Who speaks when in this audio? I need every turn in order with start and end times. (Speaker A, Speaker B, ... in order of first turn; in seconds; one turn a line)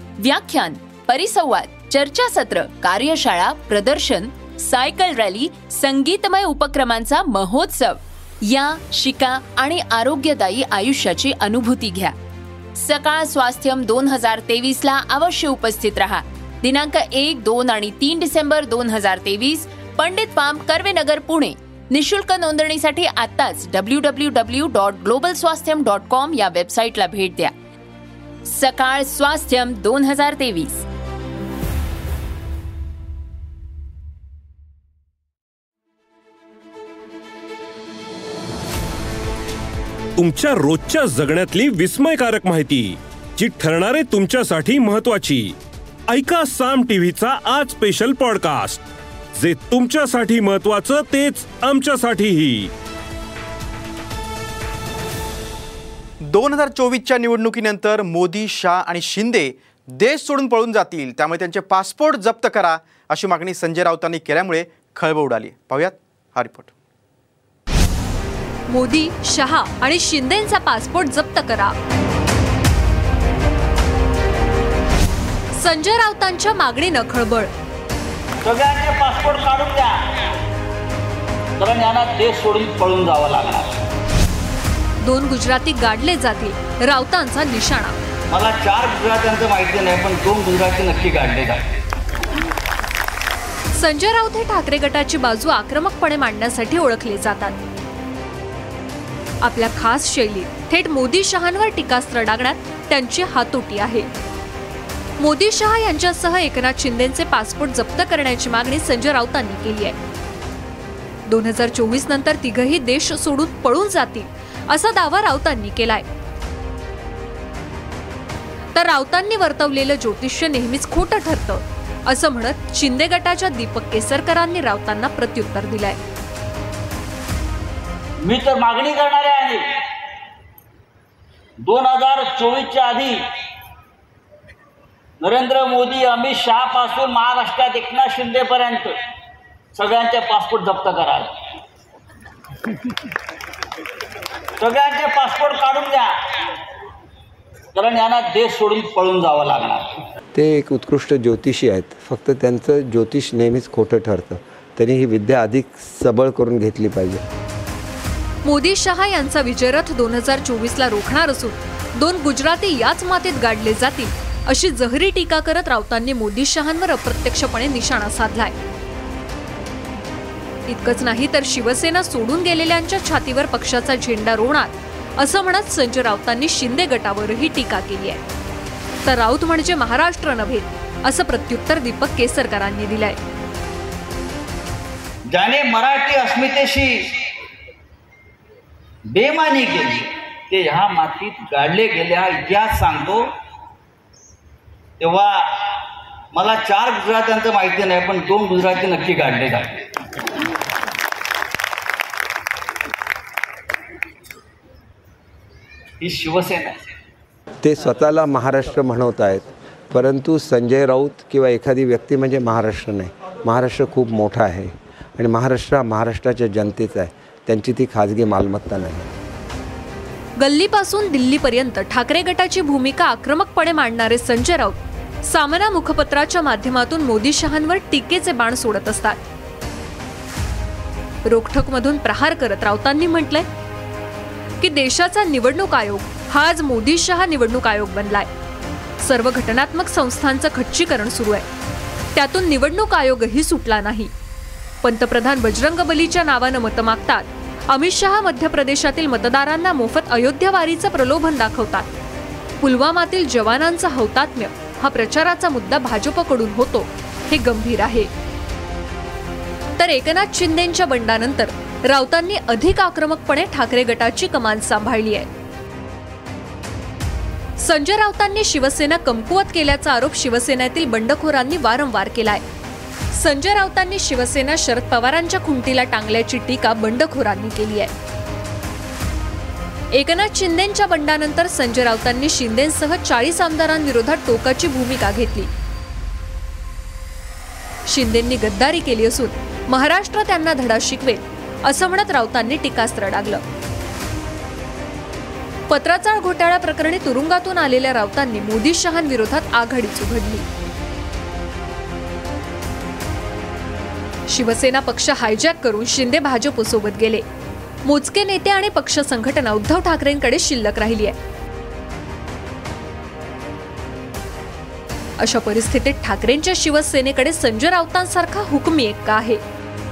Speaker A: 0.2-12.1
Speaker A: 12.8-27.5
Speaker A: 28.4-30.9
Speaker B: 40.2-45.6
Speaker B: 46.1-52.7
Speaker C: 56.2-66.7
Speaker D: 68.7-71.7
Speaker D: 75.5-77.5
Speaker E: 78.4-80.0
Speaker E: 81.6-83.8
Speaker D: 85.0-88.0
Speaker E: 88.3-91.8
Speaker D: 93.7-97.6
Speaker D: 99.4-104.1
Speaker D: 105.2-110.0
Speaker D: 111.3-116.1
Speaker D: 118.7-126.0
Speaker E: 128.2-129.8
Speaker E: 131.6-133.3
Speaker E: 135.2-139.0
Speaker E: 139.7-141.3
Speaker E: 144.6-146.1
Speaker E: 147.7-150.0
Speaker F: 150.3-157.2
Speaker D: 158.4-168.5
Speaker D: 170.7-178.2
Speaker D: 179.0-183.2
Speaker E: 185.3-187.1
Speaker E: 189.1-193.3
Speaker E: 195.0-195.5
Speaker E: 196.3-199.9
Speaker E: 206.0-206.9
Speaker F: 207.6-219.1
Speaker D: 220.4-229.2
Speaker D: 231.2-233.4
Speaker D: 234.6-238.3
Speaker D: 239.0-241.5
Speaker D: 242.1-244.1
Speaker D: 244.8-251.9
Speaker D: 252.6-258.1
Speaker D: 259.8-265.3
Speaker D: 267.6-272.4
Speaker D: 273.1-277.9
Speaker D: 279.9-285.5
Speaker D: 287.9-293.4
Speaker D: 295.7-300.4
Speaker D: 304.3-307.2
Speaker D: 307.8-311.2
Speaker D: 315.2-319.4